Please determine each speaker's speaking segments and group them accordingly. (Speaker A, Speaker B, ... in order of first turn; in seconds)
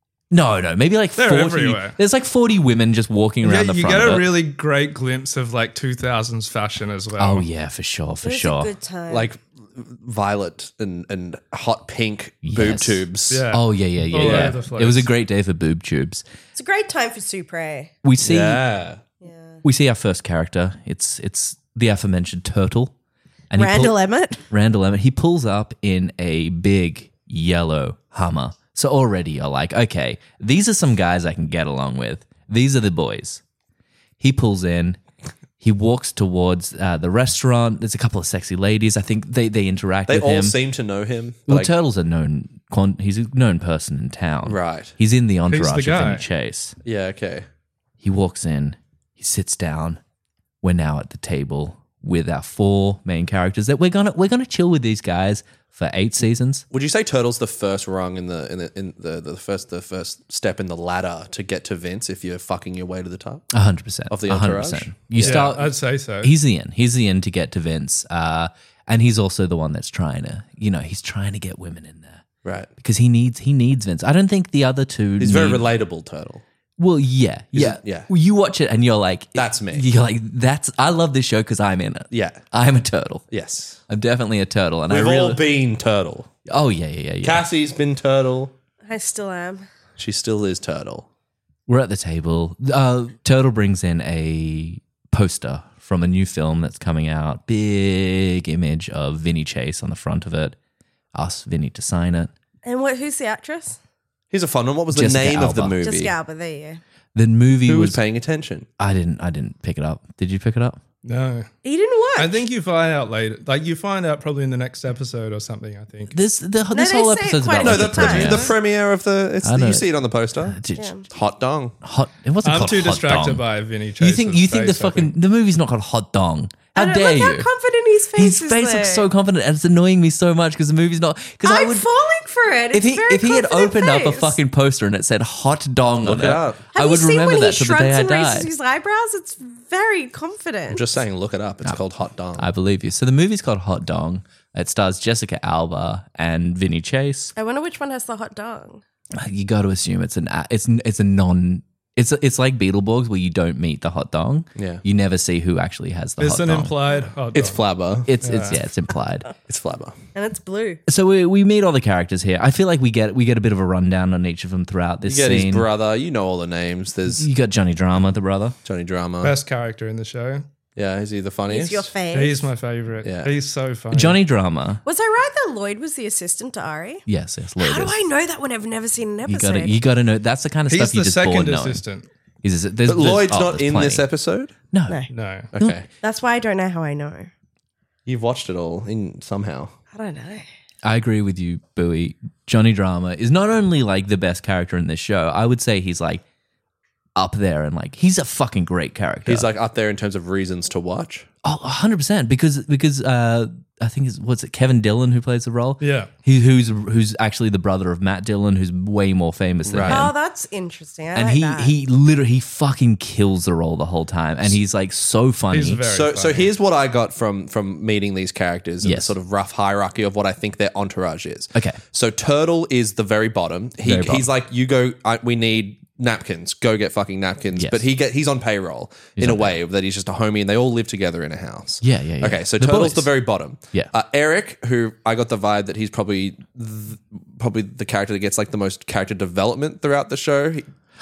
Speaker A: 0.3-4.4, 7.2-8.7, 12.4-16.2, 18.0-18.6, 19.6-22.9, 23.5-24.0, 24.5-33.4, 34.2-35.0, 35.6-40.6, 41.5-46.8, 48.0-50.0, 50.6-56.6, 63.5-72.2, 72.8-75.7, 76.8-83.3, 83.9-85.4, 86.5-87.4, 91.7-100.5, 101.2-102.3, 104.9-105.8, 107.2-108.0, 108.8-110.8, 116.1-118.5, 119.4-119.9, 120.4-120.9, 121.8-123.5, 124.0-127.5, 128.2-131.9, 132.7-138.5, 142.4-147.3, 149.2-156.8, 158.1-159.3, 160.9-165.7, 167.2-168.6, 173.9-174.8, 177.1-178.0, 179.3-181.8, 182.4-184.1, 184.7-185.0, 190.8-196.2, 197.2-199.5, 201.4-210.1, 211.2-215.8, 218.8-219.1, 223.8-224.3, 227.6-227.8, 229.2-229.6, 231.8-233.1
Speaker B: 1.2-2.0, 3.4-7.5, 13.3-15.1, 45.5-46.3, 65.2-66.3, 111.0-111.5, 112.2-116.2, 122.4-125.1, 156.2-157.6, 158.2-158.6, 169.2-170.4, 172.1-174.2, 180.7-182.1, 185.1-185.5, 205.8-206.1, 215.5-216.5
Speaker C: 8.2-9.3, 16.6-17.9, 19.2-19.6, 23.5-24.4, 88.9-89.7, 102.7-103.8, 105.8-106.8, 111.6-112.4, 116.7-118.5, 120.8-121.0, 126.8-129.1, 131.4-134.4, 136.7-140.9, 147.4-148.8, 160.2-160.8, 171.5-172.5, 174.8-177.0, 177.6-179.8, 186.0-187.3, 189.9-190.5, 209.9-211.7
Speaker D: 9.1-13.5, 14.2-14.6, 18.2-19.0, 40.1-41.7, 44.5-45.0, 46.9-47.5, 56.7-63.5, 64.1-65.5, 75.2-76.4, 77.5-78.1, 79.4-79.9, 82.1-82.4, 83.3-83.8, 84.9-86.3, 87.2-88.5, 90.0-91.1, 104.3-106.1, 107.7-108.7, 117.6-120.6, 121.1-121.8, 136.0-136.6, 140.7-142.5, 154.6-154.8, 157.3-158.1, 159.5-160.0, 165.1-167.3, 168.7-169.4, 170.8-171.9, 173.0-173.3, 182.9-184.5, 185.5-185.9, 188.1-189.7, 199.3-201.3, 209.7-210.1, 215.9-240.7